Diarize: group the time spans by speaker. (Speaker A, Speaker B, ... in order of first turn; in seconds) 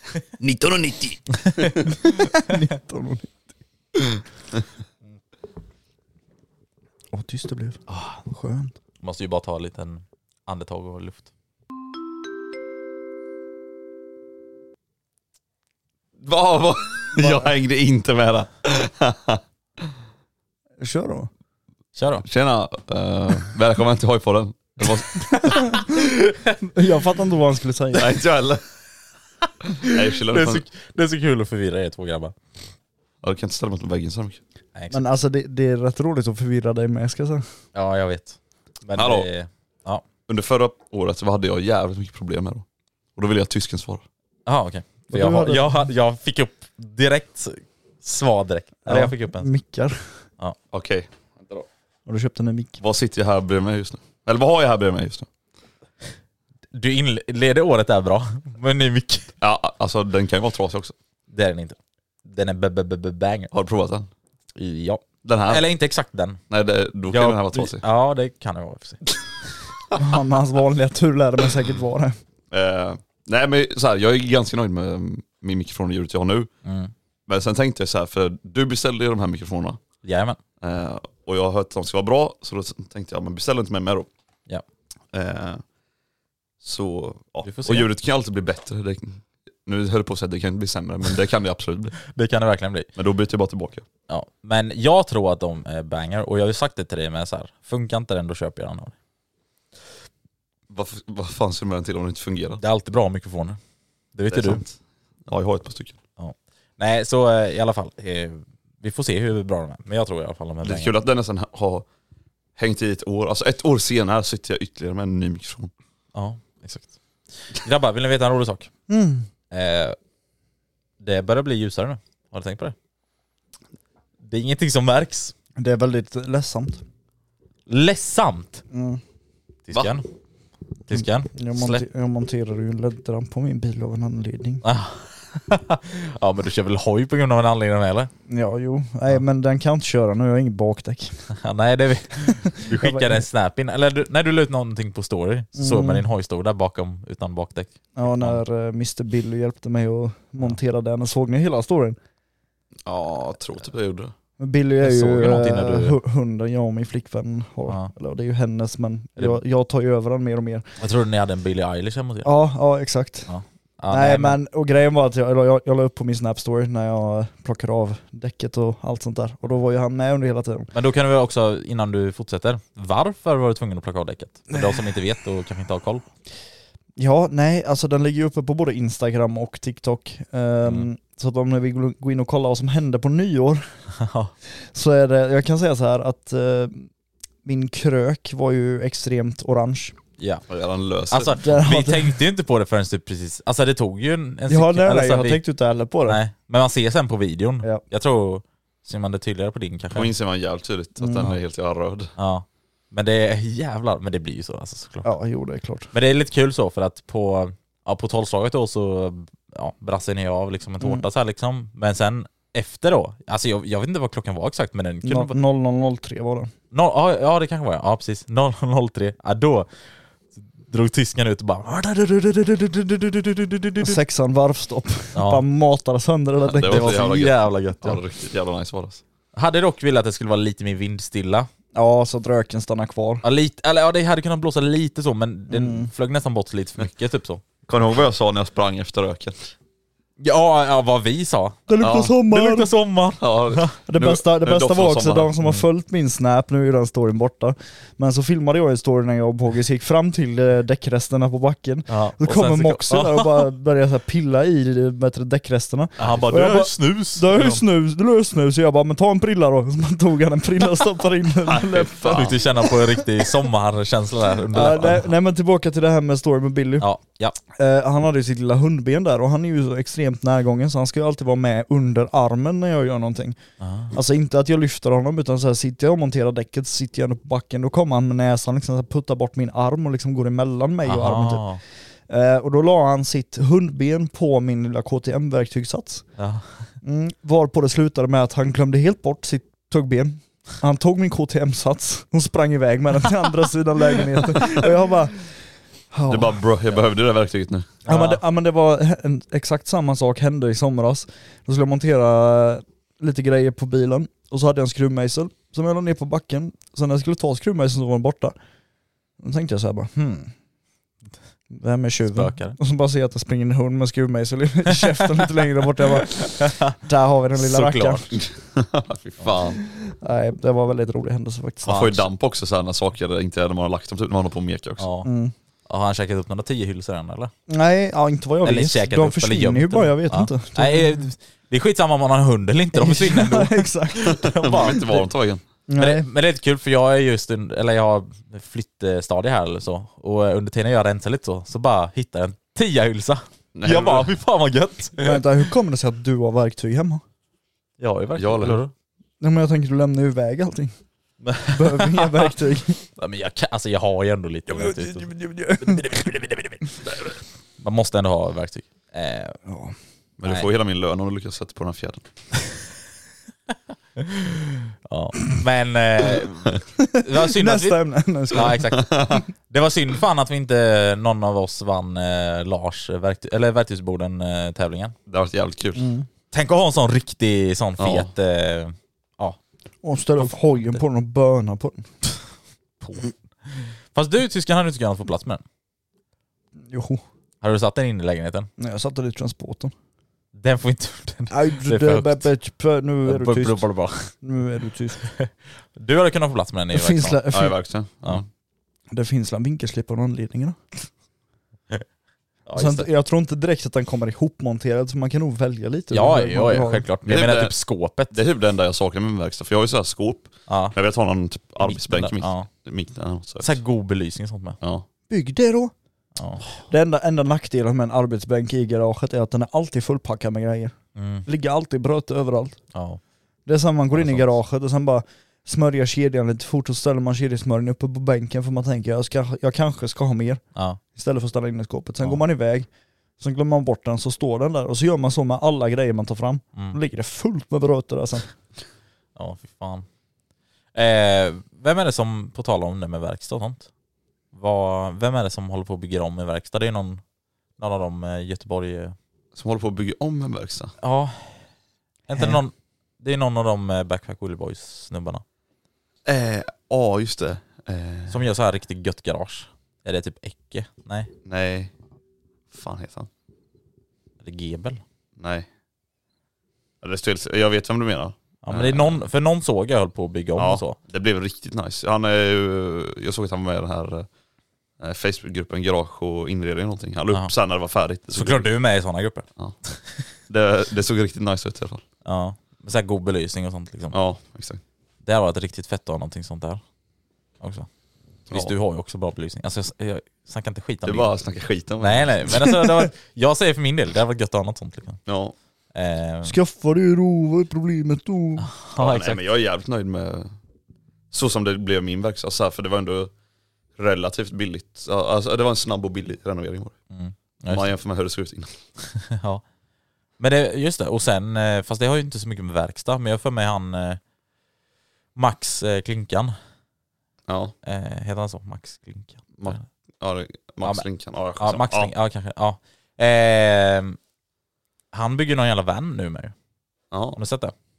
Speaker A: 0.4-2.6, 7.9-8.2, 9.0-11.3, 21.9-22.2, 29.9-32.4, 37.7-40.0, 44.5-49.5, 56.7-59.3, 61.3-63.5, 64.6-66.4, 67.1-69.1, 76.7-76.9, 80.0-80.4, 87.5-87.9, 92.1-92.9, 94.1-98.9, 102.6-103.6, 104.2-104.6, 106.2-110.9, 116.2-116.9, 117.5-118.7, 119.5-120.0, 121.0-122.8, 124.2-125.3, 127.7-128.6, 129.7-130.1, 130.9-131.8, 134.6-138.1, 141.4-148.4, 154.8-156.0, 160.8-162.3, 163.3-164.4, 170.7-176.0, 184.0-184.3, 190.2-190.4, 191.1-195.4, 196.1-200.1, 202.2-205.1, 205.9-215.3, 216.7-219.7, 220.6-224.0, 225.2-225.4, 226.6-228.0, 229.3-231.5, 233.2-237.4, 240.2-241.7, 242.2-243.8, 251.9-253.5, 256.0-257.6, 262.1-265.1, 266.8-267.4, 273.6-273.9, 280.9-281.6, 286.2-286.7, 297.9-298.2, 312.1-312.6, 316.3-316.8, 317.4-318.1, 321.7-322.0, 324.8-325.1, 325.7-327.3, 328.4-335.0, 335.8-345.2, 347.8-348.7, 351.2-352.3, 353.0-355.1, 355.6-359.4, 360.2-360.5, 364.0-368.9, 369.5-374.9, 376.3-379.4, 380.2-380.8, 382.8-385.4, 387.4-388.5, 390.4-392.3, 393.1-394.1, 395.0-397.2, 402.5-402.9, 405.9-408.2, 410.5-410.8, 411.6-412.5, 413.4-414.6, 416.2-416.4, 421.0-421.3, 422.7-423.0, 423.9-424.3, 430.6-430.8, 439.2-439.9, 440.7-443.7, 444.3-447.0, 447.6-448.9, 450.8-451.2, 452.1-455.2, 458.1-461.1, 464.2-464.8, 468.4-470.8, 478.1-480.0, 482.1-484.0, 485.0-486.6, 487.4-487.7, 488.3-491.1, 491.8-495.0, 495.8-496.4, 498.4-499.2, 506.9-507.7, 508.9-509.4, 510.2-514.0, 515.2-516.4, 517.6-519.6, 521.4-524.0, 524.9-526.3, 527.2-527.5
Speaker B: 1.9-3.3, 7.1-8.7, 17.2-17.5, 20.8-21.3, 25.5-25.9, 26.6-28.1, 34.9-37.5, 45.1-45.9, 48.9-50.0, 52.1-52.8, 70.0-72.2, 118.9-119.3, 125.6-126.8, 128.7-129.0, 131.0-134.6, 138.3-141.2, 142.6-143.2, 145.6-146.0, 148.0-152.0, 154.4-160.7, 162.2-163.3, 163.9-170.7, 177.0-183.7, 184.7-186.9, 187.4-189.9, 191.4-192.1, 194.5-196.2, 201.0-201.3, 205.0-205.9, 215.0-216.5, 223.8-227.0, 231.8-233.2, 235.5-235.9, 241.7-242.7, 243.9-262.5, 264.5-266.9, 267.5-273.4, 273.9-281.4, 282.1-286.1, 286.8-295.3, 295.9-296.3, 297.9-308.4, 309.2-310.3, 311.5-318.1, 319.8-321.8, 325.0-325.3, 327.5-330.9, 332.7-334.2, 335.7-336.1, 345.0-347.0, 349.2-350.7, 351.5-352.8, 354.5-356.1, 359.5-359.8, 367.2-368.6, 375.8-376.1, 379.8-381.9, 386.7-387.0, 388.6-389.7, 391.3-393.6, 394.2-395.0, 396.7-397.5, 398.9-400.6, 402.6-406.8, 415.1-415.7, 416.7-422.6, 423.5-430.4, 430.9-432.7, 433.2-438.3, 496.2-498.5
Speaker C: 16.2-19.9, 22.2-25.5, 27.9-28.6, 29.8-30.6, 33.2-34.4, 39.0-39.3, 40.3-42.6, 43.2-44.0, 50.7-51.7, 52.8-55.3, 59.4-61.0, 63.5-64.1, 65.2-65.6, 66.5-67.8, 72.5-76.5, 77.3-79.8, 80.6-84.1, 85.1-85.6, 86.6-92.0, 93.0-93.9, 100.7-102.6, 104.3-104.7, 105.3-106.0, 110.6-111.9, 112.6-115.7, 152.8-154.1, 190.5-191.4, 199.9-202.1, 226.5-229.0, 237.7-239.5, 241.8-242.1, 243.2-245.3, 261.5-262.5, 296.1-297.8, 318.1-319.6, 321.7-324.9, 334.0-335.4, 343.6-344.2, 348.2-348.6, 360.2-362.0, 368.8-369.2, 375.1-375.9, 377.8-378.1, 397.3-398.3, 407.1-407.6, 408.1-413.6, 414.6-414.9, 449.3-450.7, 456.1-458.2, 461.3-461.7, 462.5-463.1, 465.2-465.5, 466.8-469.0, 470.4-474.1, 474.8-478.5, 480.3-481.8, 483.9-484.6, 490.9-492.4, 495.1-495.4, 498.8-500.3, 501.1-503.1, 503.8-506.8, 507.5-508.5, 517.3-517.5, 519.4-521.9, 526.9-527.2